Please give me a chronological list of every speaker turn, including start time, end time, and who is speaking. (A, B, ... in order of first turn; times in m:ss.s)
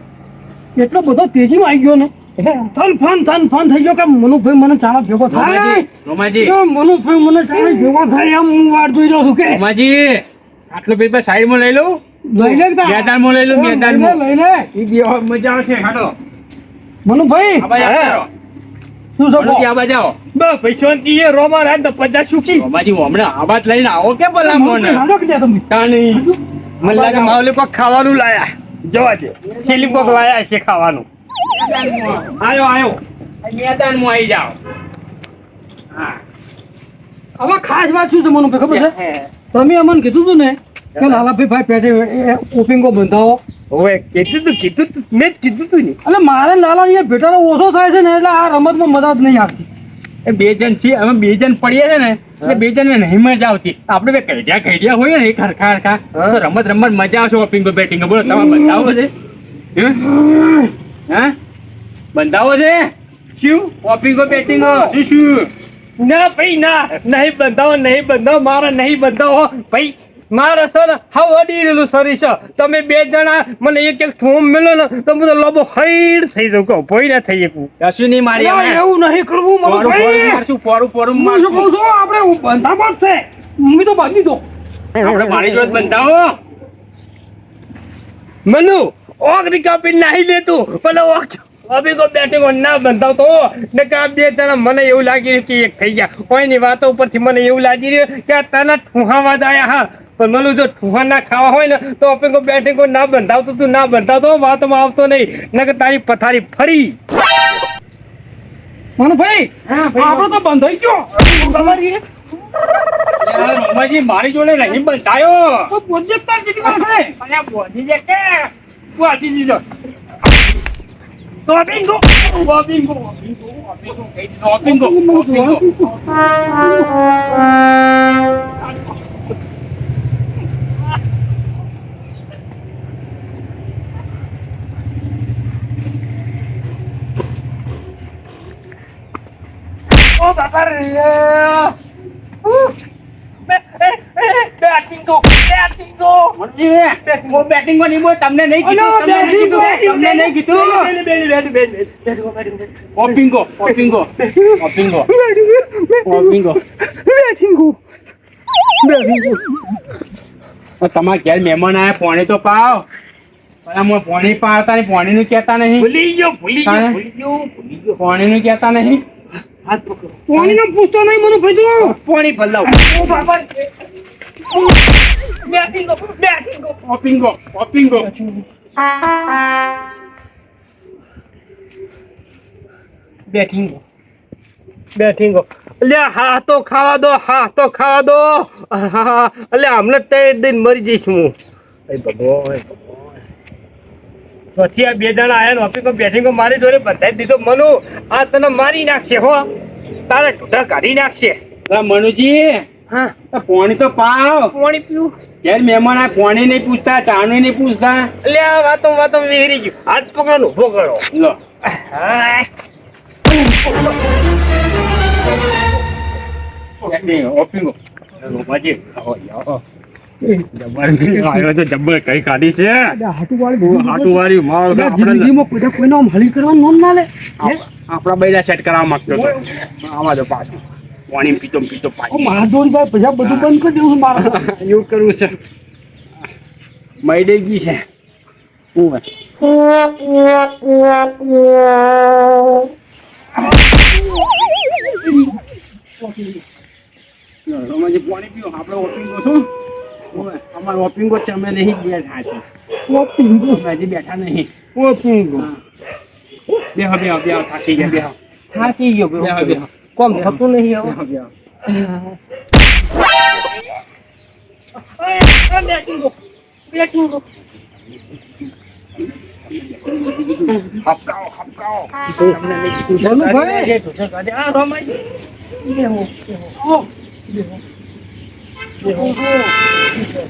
0:00.8-0:02.1 A
0:02.7-0:05.8 A
0:05.3-0:06.5 B
0:06.4-0:09.6 A
0:09.5-0:14.2 B
0:12.3-0:14.7 A
0:14.7-0:16.1 B
0:17.0-0:17.7 A
0:17.6-0:18.3 B
0:17.7-0:18.2 C
0:19.2-0:19.6 A
0:19.3-0:20.2 B
0:20.3-0:22.6 C
0:22.5-0:25.0 B
0:24.4-0:25.6 A
0:25.7-0:27.4 B
0:26.8-0:31.0 C
0:29.4-0:30.3 B
0:31.5-0:32.3 B
0:32.4-0:33.0 C
0:33.4-0:34.6 B
0:35.9-0:36.2 B
0:37.4-0:38.9 A
0:38.7-0:39.3 C
0:39.5-0:43.4 A
0:43.7-0:46.0 C
0:46.0-0:49.7 A
0:50.2-0:59.1 B
0:56.1-0:56.4 C
0:59.7-1:00.2 B
1:01.1-1:01.4 B
1:02.1-1:02.9 B
1:03.4-1:03.7 C
1:03.8-1:05.5 B
1:04.4-1:04.9 C
1:06.0-1:17.7 C
1:17.8-1:18.8 B
1:18.3-1:20.4 A
1:19.6-1:21.7 B
1:21.1-1:24.4 A
1:25.0-1:26.3 B
1:28.4-1:47.0 C
1:49.0-1:51.8 A
1:49.6-1:50.4 C
1:51.2-1:52.0 C
1:53.2-1:55.7 B
1:55.7-1:57.1 A
1:56.6-1:59.6 B
2:01.8-2:03.3 C
2:03.3-2:06.0 B
2:04.6-2:06.9 A
2:20.2-2:21.8 C
2:22.4-2:22.7 C
2:23.5-2:26.4 C
2:26.4-2:30.9 B
2:27.0-2:27.4 C
2:28.6-2:37.8 C
2:28.7-2:30.0 A
2:32.9-2:35.1 B
2:36.0-2:36.6 B
2:38.8-2:39.6 C
2:40.8-2:42.8 B
2:43.6-2:45.9 B
2:45.8-2:48.0 C
2:46.6-2:47.0 B
2:48.0-2:49.0 B
2:49.6-2:50.2 C
2:50.3-2:52.0 A
2:52.0-2:53.6 C
2:52.8-2:53.2 A
2:55.4-2:56.8 C
2:56.8-2:58.1 B
2:58.0-2:58.4 C
3:03.3-3:03.8 C
3:05.0-3:11.3 C
3:11.9-3:13.0 C
3:14.6-3:19.4 C
3:20.1-3:21.4 C
3:21.7-3:22.6 B
3:22.9-3:23.1 C
3:23.3-3:24.5 B
3:24.5-3:25.1 C
3:25.4-3:28.1 B
3:28.2-3:31.0 C
3:31.1-3:31.4 B
3:31.7-3:32.5 C
3:33.3-3:34.0 C
3:36.8-3:39.6 B
3:40.5-3:42.9 B
3:42.9-3:47.6 A
3:43.6-3:45.3 B
3:47.4-3:52.4 B
3:49.1-3:49.4 A
3:52.1-3:54.4 A
3:53.2-3:53.5 B
3:54.2-3:55.3 B
3:57.0-3:57.8 B
3:58.7-3:59.0 B
4:07.4-4:09.5 B
4:10.1-4:12.4 B
4:12.9-4:13.6 C
4:13.5-4:14.5 B
4:14.7-4:15.5 C
4:16.7-4:18.2 B
4:18.5-4:21.0 C
4:19.2-4:21.3 B
4:21.6-4:22.2 C
4:24.8-4:26.1 C
4:26.7-4:27.2 C
4:29.5-4:31.9 B
4:30.6-4:35.0 C
4:33.0-4:33.7 A
4:35.6-4:36.5 C
4:36.6-4:36.9 A
4:37.3-4:37.6 C
4:38.8-4:40.1 C
4:38.8-4:39.5 A